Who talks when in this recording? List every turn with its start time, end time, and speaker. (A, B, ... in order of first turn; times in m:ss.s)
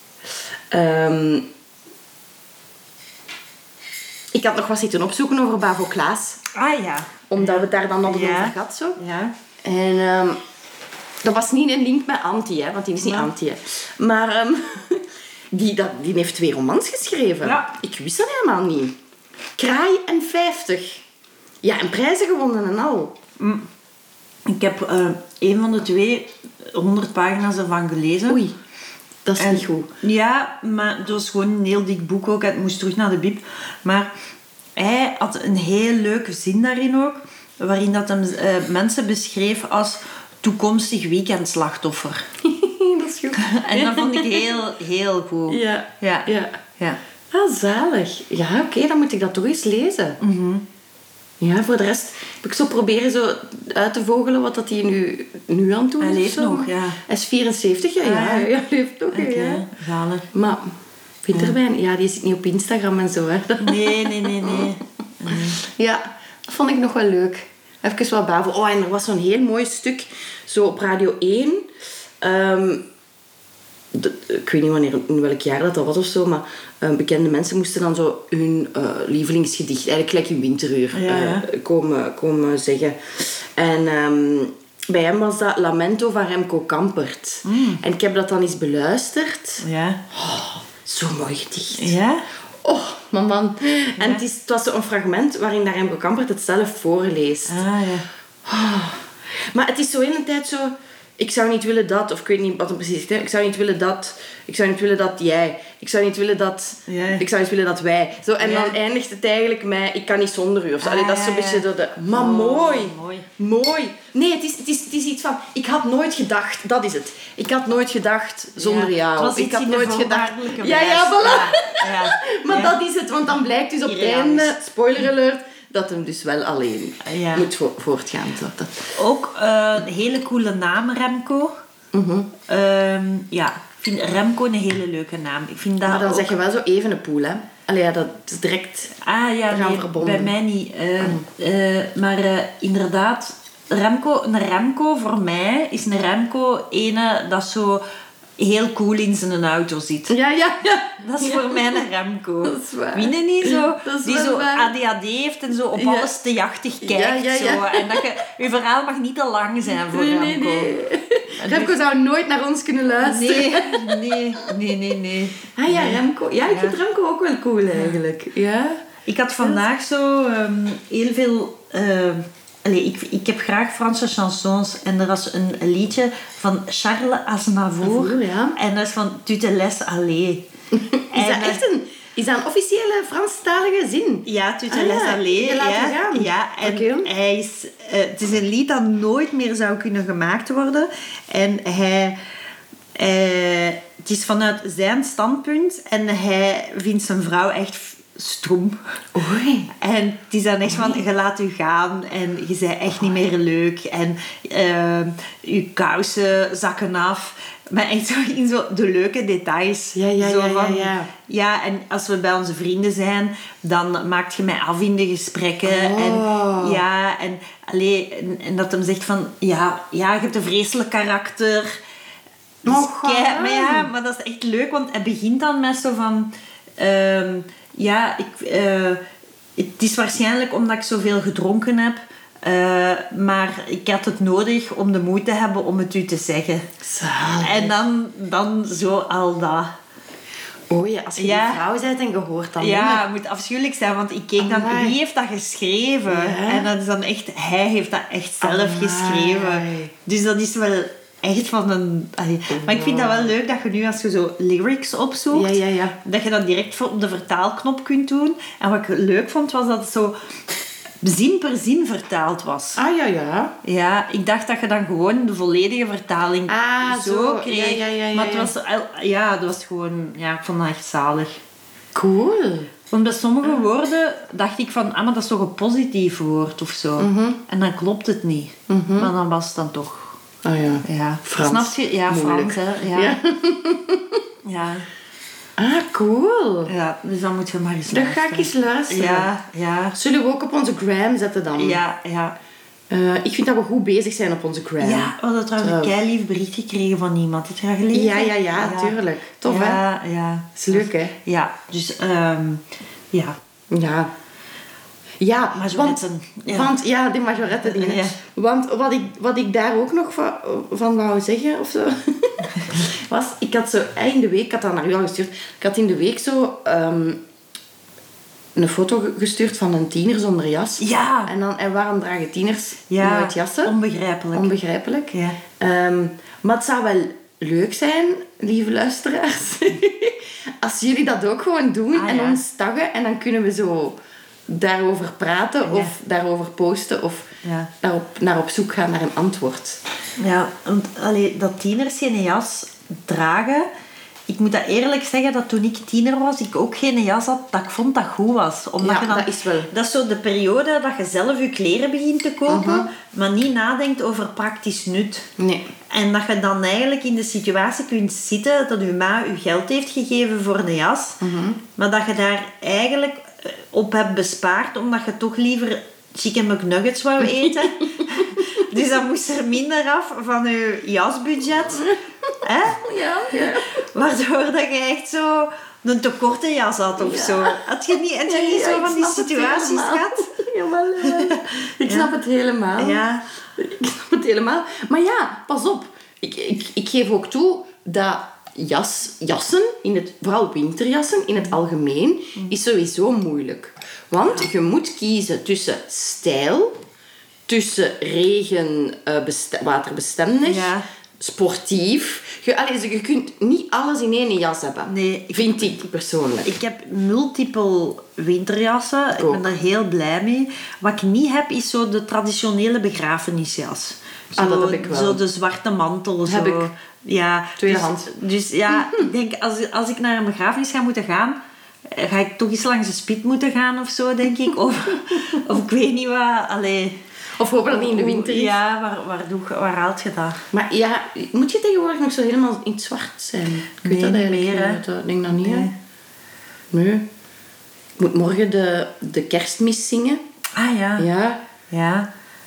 0:00.7-0:01.5 A
0:04.3-0:06.4 A
0:06.5-0:09.3 B
0:07.3-0:09.0 A
0:09.6-0:10.4 A
0:11.2-0:18.9 A
0:13.0-0:13.3 B
0:17.4-0:17.7 B
0:19.6-0:21.0 A
0:21.6-0:23.1 A
0:23.4-0:23.7 B
0:24.5-0:28.4 B
0:28.3-0:28.6 A
0:29.2-0:29.9 A
0:29.4-0:34.1 B
0:34.8-0:42.2 B
0:42.4-0:44.5 A
0:43.4-0:47.0 B
0:45.5-0:46.6 A
0:47.3-0:50.2 A
0:50.2-0:50.6 B
0:51.4-0:59.6 A
0:56.0-0:57.0 B
0:58.0-0:58.5 B
0:59.1-1:00.2 B
1:00.3-1:00.7 A
1:01.2-1:04.7 A
1:03.6-1:05.6 B
1:05.3-1:11.7 A
1:12.2-1:12.8 A
1:13.9-1:32.0 A
1:20.9-1:21.5 B
1:27.4-1:27.8 B
1:29.6-1:30.0 B
1:31.8-1:32.2 B
1:32.6-1:37.6 A
1:34.0-1:34.2 B
1:37.5-1:38.1 B
1:38.5-2:08.9 A
1:46.9-1:47.2 B
1:48.4-1:48.8 B
1:50.8-1:53.3 B
1:58.6-2:02.8 B
2:03.8-2:04.6 B
2:07.0-2:07.5 B
2:08.9-2:11.5 B
2:11.9-2:12.3 A
2:12.5-2:16.4 B
2:15.8-2:18.9 A
2:19.0-2:27.8 B
2:19.5-2:20.3 A
2:28.4-2:30.2 B
2:30.1-2:31.6 A
2:31.0-2:40.8 B
2:32.4-2:34.7 A
2:35.7-2:36.1 A
2:36.8-2:38.1 A
2:39.9-2:44.4 A
2:41.4-2:41.8 B
2:43.0-2:46.8 B
2:45.6-2:48.8 A
2:47.7-2:48.0 B
2:49.0-3:00.5 B
2:57.8-2:58.6 A
3:00.7-3:07.1 A
3:01.1-3:01.6 B
3:04.2-3:12.2 B
3:12.9-3:18.8 B
3:19.2-3:19.7 A
3:19.8-3:41.8 B
3:20.7-3:21.0 A
3:29.9-3:31.1 A
3:35.6-3:36.8 A
3:42.6-3:49.0 B
3:42.6-3:43.9 A
3:49.6-3:56.6 B
3:56.8-3:57.7 A
3:57.4-3:59.7 B
4:00.7-4:03.0 A
4:01.2-4:01.6 B
4:02.6-4:20.2 B
4:04.4-4:05.0 A
4:06.1-4:06.7 A
4:08.4-4:09.9 A
4:12.5-4:13.3 A
4:15.3-4:16.0 A
4:21.0-4:22.8 B
4:22.8-4:23.5 A
4:23.6-4:31.4 B
4:26.5-4:28.5 A
4:31.9-4:32.7 A
4:32.9-4:40.2 B
4:37.0-4:37.4 A
4:38.7-4:39.1 A
4:40.4-4:44.2 A
4:40.8-4:43.2 B
4:44.4-4:44.9 B
4:45.6-4:46.7 A
4:46.7-4:50.0 B
4:47.9-4:49.3 A
4:49.9-4:51.8 A
4:51.5-4:52.4 B
4:52.9-4:55.9 A
4:54.8-5:03.4 B
4:57.9-4:59.8 A
5:00.5-5:01.2 A
5:03.7-5:04.1 A
5:05.2-5:17.2 A
5:05.6-5:06.7 B
5:07.6-5:08.2 B
5:18.6-5:23.8 A
5:20.8-5:21.3 B
5:22.9-5:24.5 B
5:24.3-5:34.0 A
5:25.1-5:25.4 B
5:31.9-5:32.4 B
5:34.5-5:39.8 A
5:35.6-5:35.9 B
5:37.4-5:37.7 B
5:40.2-5:43.7 B
5:44.3-5:55.3 B
5:48.8-5:49.7 A
5:52.5-5:52.9 A
5:55.4-5:55.7 A
5:55.9-6:01.2 B
6:01.2-6:01.6 A
6:01.8-6:11.8 B
6:07.4-6:08.6 A
6:12.4-6:20.3 B
6:12.7-6:13.8 A
6:17.0-6:17.6 A
6:18.2-6:23.0 A
6:21.0-6:22.1 B
6:22.8-6:23.2 B
6:23.6-6:36.8 A
6:37.5-6:46.5 A
6:40.4-6:40.8 B
6:44.9-6:45.8 B
6:46.4-7:06.9 B
6:49.1-6:49.5 A
6:54.4-6:55.2 A
6:56.2-6:56.7 A
6:57.6-6:58.1 A
6:58.7-6:59.1 A
7:07.4-7:08.6 A
7:07.7-7:10.4 B
7:10.5-7:15.7 A
7:13.8-7:14.8 B
7:15.4-7:15.7 B
7:16.7-7:17.1 A
7:18.0-7:20.2 A
7:20.6-7:21.1 B
7:21.0-7:21.4 A
7:21.7-7:22.1 B